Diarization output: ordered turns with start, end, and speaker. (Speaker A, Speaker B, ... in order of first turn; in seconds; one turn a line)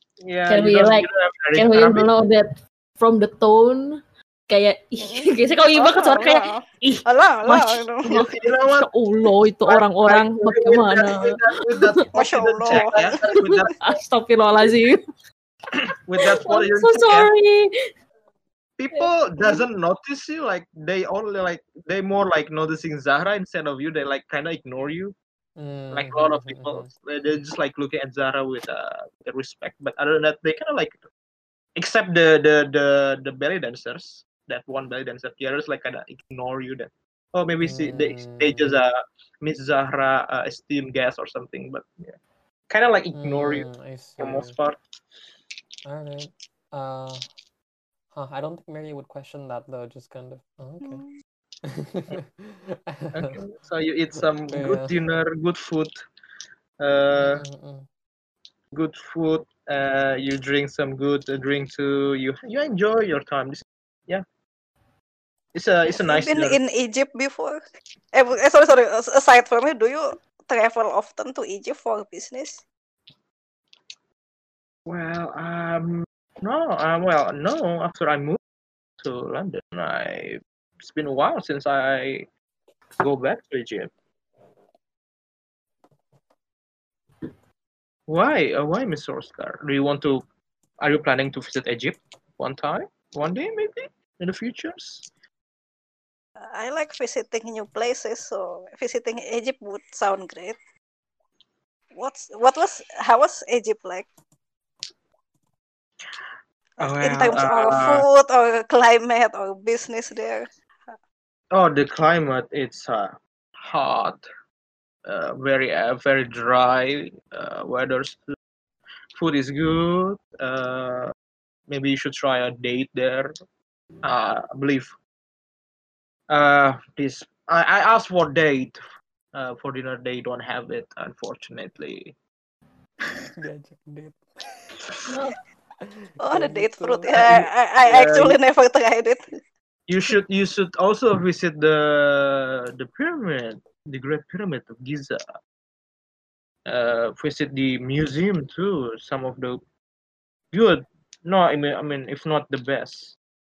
Speaker A: 0.2-2.1
Speaker B: 0.5-11.8
Speaker C: 5.0-8.3
Speaker A: 8.1-8.9
Speaker A: 9.6-13.7
Speaker C: 12.1-13.4
Speaker B: 12.7-15.0
Speaker A: 15.8-17.3
Speaker B: 16.3-17.9
Speaker A: 18.8-25.1
Speaker B: 18.9-19.6
Speaker D: 25.6-26.9
Speaker A: 25.9-31.0
Speaker A: 31.8-42.1
Speaker D: 37.6-38.8
Speaker A: 42.7-44.8
Speaker D: 43.1-44.5
Speaker D: 45.8-47.2
Speaker D: 48.1-51.0
Speaker C: 50.8-51.1
Speaker D: 51.6-53.4
Speaker A: 53.1-55.9
Speaker D: 54.5-55.0
Speaker A: 56.8-57.4
Speaker D: 57.1-57.9
Speaker A: 58.7-64.2
Speaker A: 65.5-66.6
Speaker C: 65.9-67.6
Speaker C: 68.1-72.6
Speaker A: 74.8-78.4
Speaker A: 79.0-82.3
Speaker A: 83.0-83.9
Speaker A: 88.1-90.2
Speaker A: 90.8-95.1
Speaker C: 96.4-100.6
Speaker C: 101.9-104.1
Speaker A: 106.8-108.0
Speaker C: 106.8-111.0
Speaker A: 111.5-114.2
Speaker A: 115.1-118.2
Speaker A: 119.1-121.1
Speaker A: 121.7-123.3
Speaker A: 124.0-124.9
Speaker A: 126.3-128.8
Speaker A: 129.3-132.1
Speaker D: 133.3-134.2
Speaker B: 135.1-135.4
Speaker D: 135.8-137.2
Speaker C: 136.2-139.2
Speaker A: 137.1-138.4
Speaker A: 139.9-145.2
Speaker A: 146.7-149.6
Speaker A: 150.5-153.2